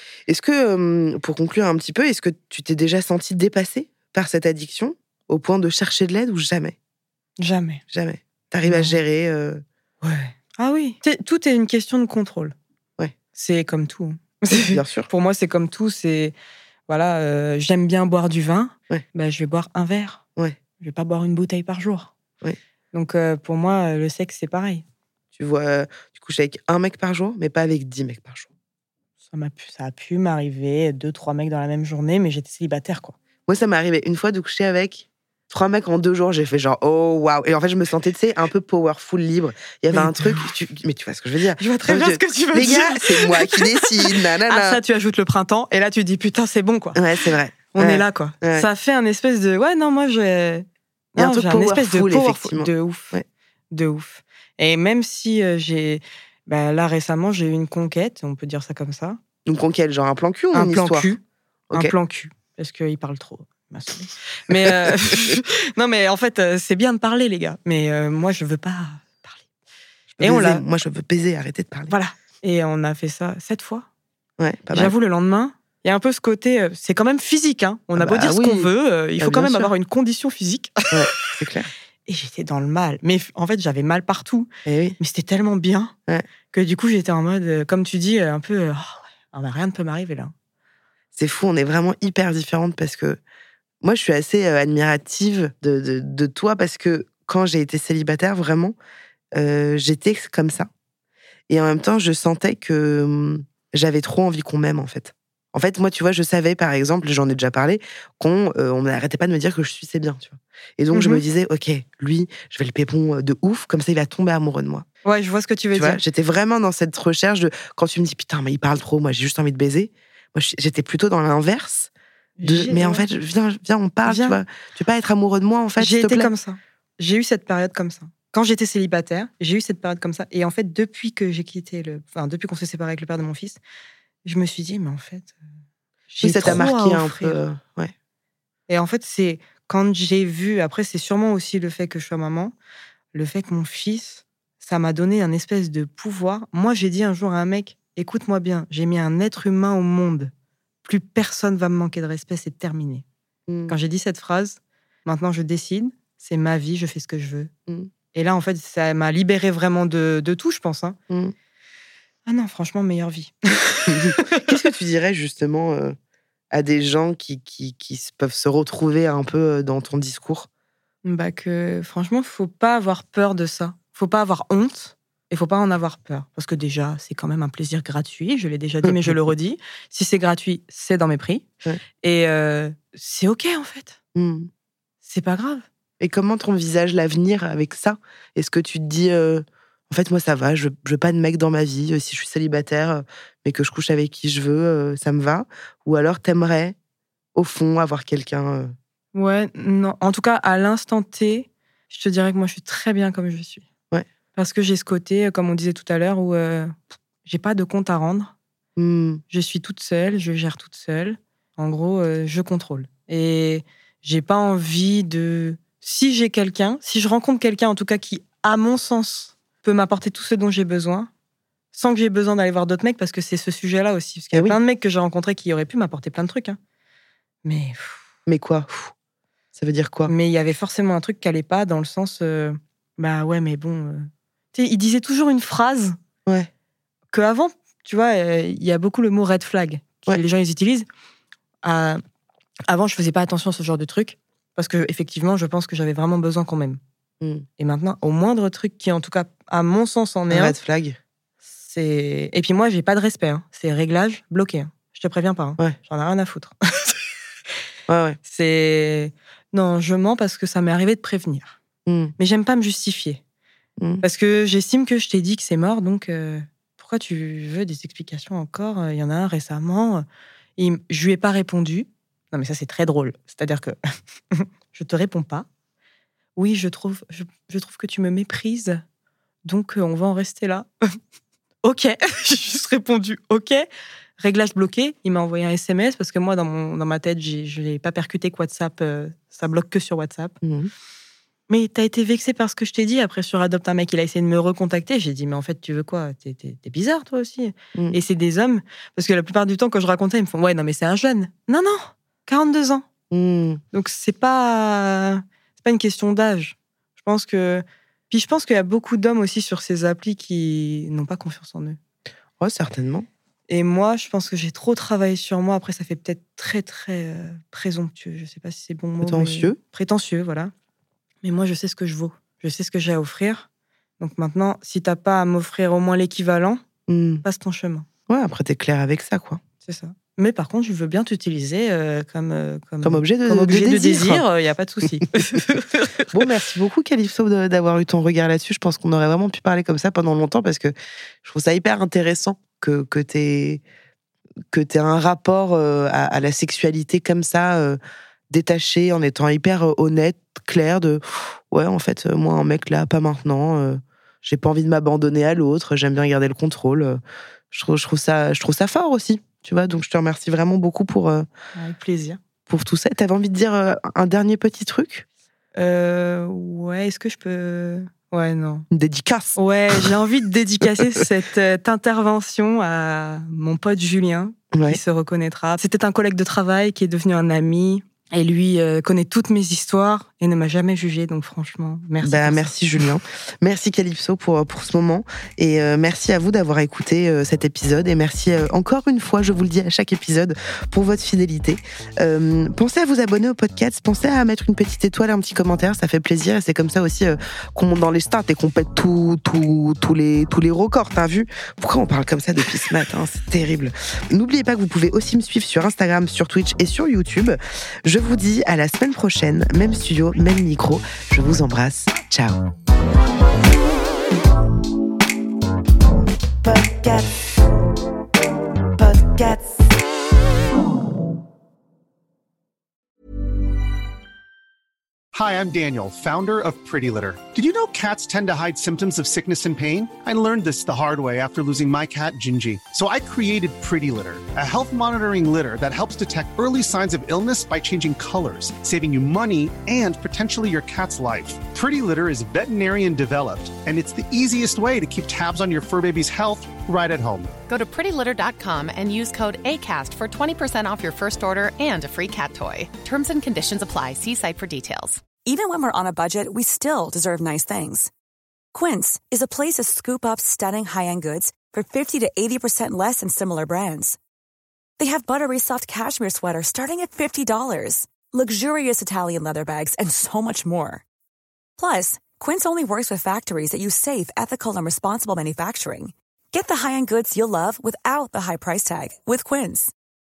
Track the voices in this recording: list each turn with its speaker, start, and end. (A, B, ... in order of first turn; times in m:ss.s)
0:00.3-0:06.8 A
0:07.4-0:07.8 B
0:07.9-0:09.6 A
0:08.6-0:09.0 B
0:10.0-0:12.6 B
0:13.3-0:16.3 B
0:14.5-0:15.1 A
0:16.9-0:20.2 B
0:20.8-0:22.1 B
0:22.9-0:24.8 B
0:25.4-0:28.5 A
0:29.3-0:33.2 B
0:33.5-0:44.8 A
0:39.9-0:40.5 B
0:41.6-0:47.1 B
0:47.0-0:48.7 A
0:47.7-0:50.6 B
0:51.2-0:53.2 B
0:51.2-0:53.3 A
0:53.7-0:59.2 B
0:59.5-1:01.1 A
1:00.5-1:01.2 B
1:01.7-1:09.4 B
1:04.5-1:04.9 A
1:10.1-1:11.9 A
1:10.2-1:10.6 B
1:11.9-1:13.9 B
1:14.4-1:14.9 A
1:14.7-1:21.3 B
1:18.0-1:19.7 A
1:20.9-1:21.7 A
1:22.1-1:25.9 B
1:24.7-1:25.0 A
1:26.5-1:30.3 B
1:31.1-1:33.2 A
1:33.8-1:38.8 A
1:39.4-1:40.7 A
1:41.5-1:54.8 A
1:50.9-1:51.2 B
1:55.0-1:56.0 B
1:55.7-2:01.9 A
2:02.4-2:03.1 B
2:02.4-2:06.3 A
2:04.1-2:04.4 B
2:05.8-2:13.6 B
2:14.2-2:15.3 B
2:16.1-2:17.4 B
2:16.2-2:17.9 A
2:18.7-2:22.5 B
2:23.1-2:30.3 B
2:30.8-2:33.0 B
2:33.5-2:33.8 A
2:33.7-2:37.5 B
2:38.1-2:41.0 B
2:41.1-2:41.4 A
2:42.3-2:44.6 B
2:43.9-2:46.0 A
2:46.5-2:50.5 A
2:51.0-3:01.5 B
2:58.8-2:59.3 A
3:02.0-3:04.0 B
3:04.2-3:04.5 A
3:05.0-3:05.7 B
3:06.0-3:16.8 A
3:17.4-3:18.8 A
3:19.1-3:23.6 B
3:24.4-3:28.3 B
3:28.8-3:29.2 A
3:29.3-3:41.1 B
3:41.7-3:46.6 B
3:44.3-3:44.6 A
3:47.4-3:48.0 B
3:48.3-3:48.9 A
3:49.6-3:50.1 A
3:50.1-3:56.0 B
3:57.1-4:00.9 B
4:01.6-4:02.0 B
4:02.7-4:06.8 B
4:07.6-4:10.6 B
4:10.3-4:11.0 A
4:11.6-4:17.0 B
4:17.9-4:18.2 A
4:18.3-4:21.6 B
4:21.9-4:22.2 A
4:22.2-4:23.2 B
4:24.0-4:30.0 B
4:30.6-4:33.8 B
4:34.3-4:35.5 B
4:36.4-4:38.8 B
4:39.4-4:40.7 B
4:41.6-4:43.7 B
4:44.2-4:50.4 B
4:50.4-4:50.7 A
4:51.5-5:02.8 B
5:03.1-5:03.6 A
5:03.7-5:11.8 B
5:12.4-5:13.1 A
5:13.5-5:20.5 B
5:19.0-5:19.6 A
5:21.2-5:23.5 B
5:24.0-5:26.7 B
5:26.9-5:27.2 A
5:27.2-5:27.9 B
5:28.1-5:29.4 A
5:29.6-5:36.2 B
5:32.8-5:34.2 A
5:36.1-5:43.6 A
5:44.5-5:47.8 A
5:48.3-5:57.0 A
5:57.5-6:01.3 A
6:01.6-6:02.2 B
6:02.5-6:05.0 A
6:05.6-6:08.7 B
6:08.7-6:09.9 A
6:09.4-6:22.5 B
6:14.5-6:14.8 A
6:22.0-6:52.4 A
6:56.4-6:57.4 A
6:58.8-6:59.6 A
7:05.1-7:27.4 C
7:27.5-7:35.1 D
7:35.2-7:37.9 E
7:38.5-7:44.0 E
7:44.8-7:50.8 E
7:51.6-7:59.7 E